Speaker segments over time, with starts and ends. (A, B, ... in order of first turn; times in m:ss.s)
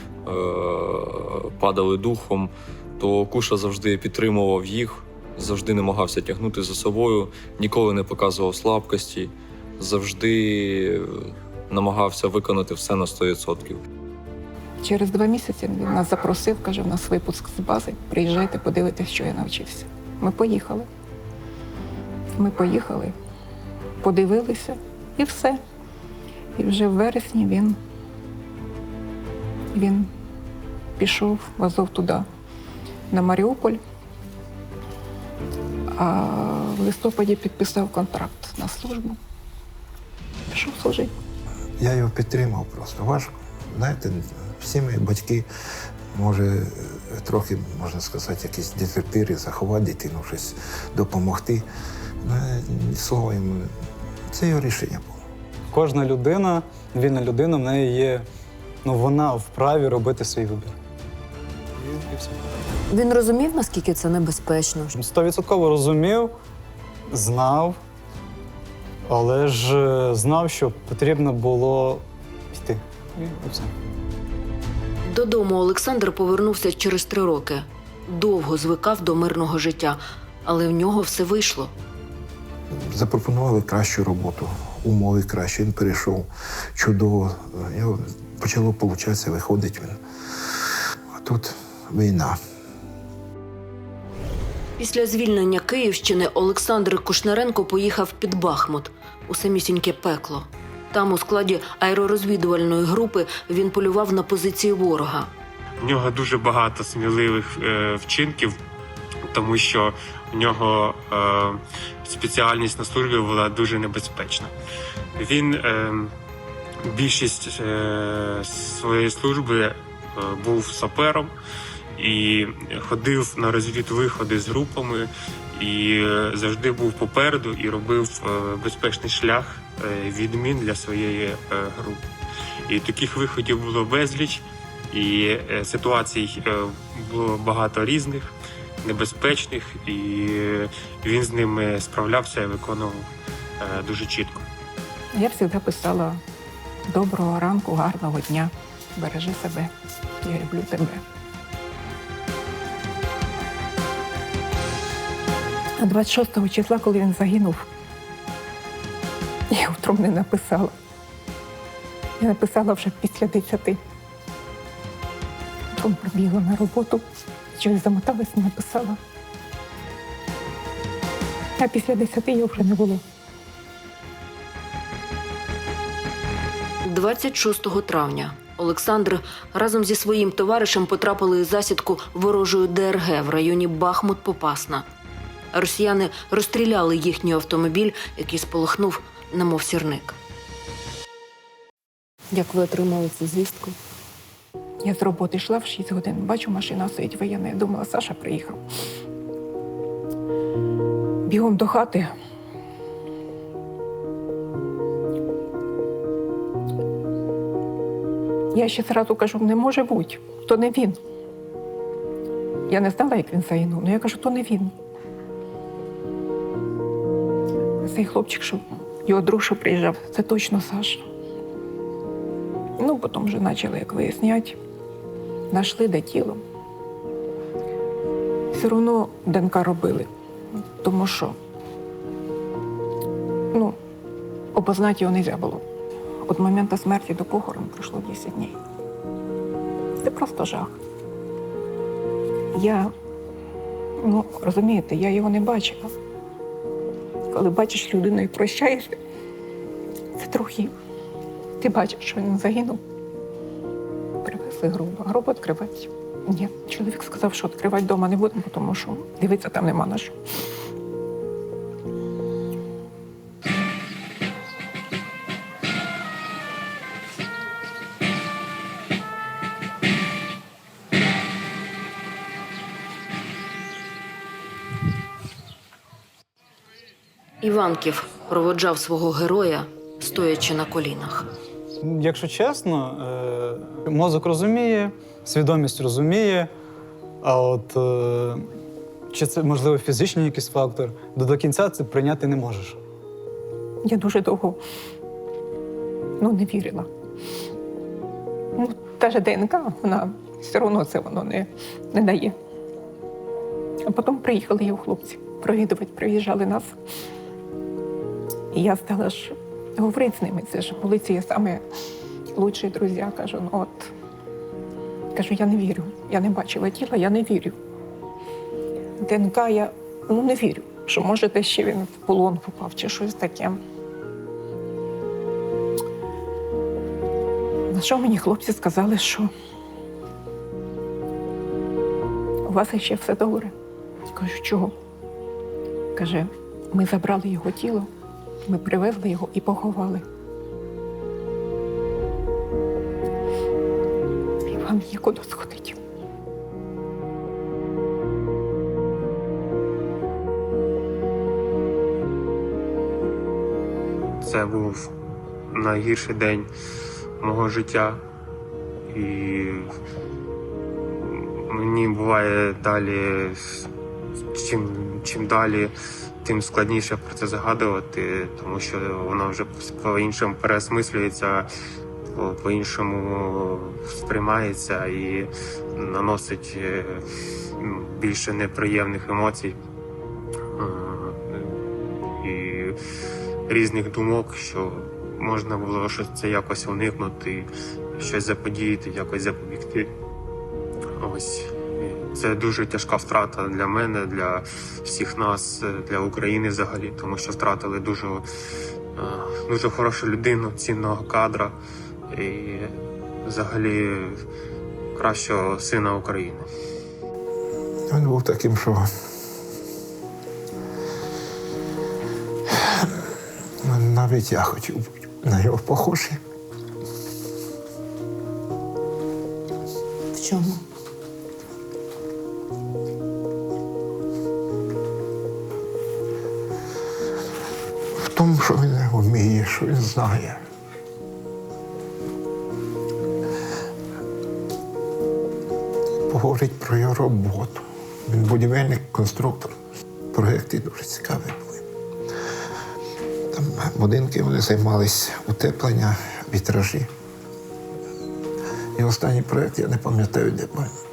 0:00.3-0:13.8 A
0:14.8-0:20.9 B
0:22.4-0:23.1 B
0:24.0-0:25.6 B
0:26.6-0:27.8 B
0:29.7-0:30.1 B
0:31.0-0:32.3 B
0:33.1-0:33.8 B
0:36.0-0:39.2 B
0:40.5-0:41.1 B
0:41.8-0:45.5 C
0:46.1-0:51.7 C
0:52.2-0:53.7 C
0:54.3-0:55.2 C
0:55.7-0:58.3 D
0:58.8-1:00.8 D
1:01.8-1:02.4 D
1:02.9-1:04.9 E
1:05.0-1:06.3 D
1:07.1-1:07.8 D
1:09.1-1:13.7 D
1:15.1-1:21.7 E
1:22.7-1:30.0 C
1:31.2-1:32.4 C
1:34.8-1:45.3 E
1:45.8-1:48.6 F
1:49.3-1:54.5 F
1:55.2-1:56.1 F
1:56.9-2:01.3 F
2:02.0-2:12.0 F
2:12.7-2:18.3 F
2:18.8-2:23.1 F
2:23.6-2:24.4 F
2:25.1-2:26.2 B
2:26.9-2:31.0 B
2:35.8-2:37.6 B
2:39.5-2:40.7 B
2:42.2-2:43.8 B
2:45.7-2:49.0 B
2:51.6-2:53.0 B
2:56.8-3:04.9 E
3:05.5-3:10.2 E
3:12.3-3:13.8 E
3:14.8-3:18.6 B
3:21.3-3:22.1 B
3:28.5-3:31.0 B
3:32.7-3:34.7 B
3:37.8-3:41.0 B
3:42.8-3:44.6 B
3:45.5-3:46.4 B
3:48.5-3:50.1 B
3:50.8-3:51.4 B
3:54.5-3:55.6 B
3:56.3-3:58.6 B
4:00.0-4:00.8 B
4:02.5-4:02.9 B
4:04.0-4:05.9 B
4:07.3-4:09.0 B
4:10.2-4:10.7 B
4:11.6-4:12.8 B
4:14.2-4:20.2 B
4:37.4-4:41.3 E
4:41.8-4:46.5 D
4:47.2-4:48.4 D
4:49.1-4:52.8 D
4:53.8-4:54.6 B
4:56.2-4:56.9 B
4:58.6-5:02.4 B
5:03.9-5:06.7 B
5:08.5-5:11.6 B
5:12.3-5:13.9 B
5:15.1-5:17.6 B
5:19.0-5:23.6 B
5:27.7-5:29.3 B
5:32.5-5:33.5 B
5:34.1-5:34.7 B
5:36.0-5:37.9 B
5:38.5-5:40.0 B
5:44.5-5:45.8 B
5:54.2-5:54.9 F
5:55.5-5:56.5 F
5:57.2-5:58.0 F
5:58.9-5:59.7 F
6:01.0-6:03.7 F
6:04.3-6:11.5 F
6:12.1-6:17.0 F
6:17.6-6:19.6 F
6:20.6-6:21.6 F
6:22.2-6:22.8 F
6:23.5-6:29.9 F
6:31.0-6:38.2 F
6:39.0-6:41.5 F
6:42.1-6:42.7 F
6:43.2-6:44.2 F
6:45.0-6:46.5 F
6:47.9-6:48.9 C
6:52.6-6:52.9 C
6:53.6-6:56.2 C
7:00.2-7:00.6 E
7:08.0-7:10.4 C
7:16.1-7:19.5 C
7:20.1-7:21.6 C
7:23.3-7:26.9 C
7:28.8-7:30.7 C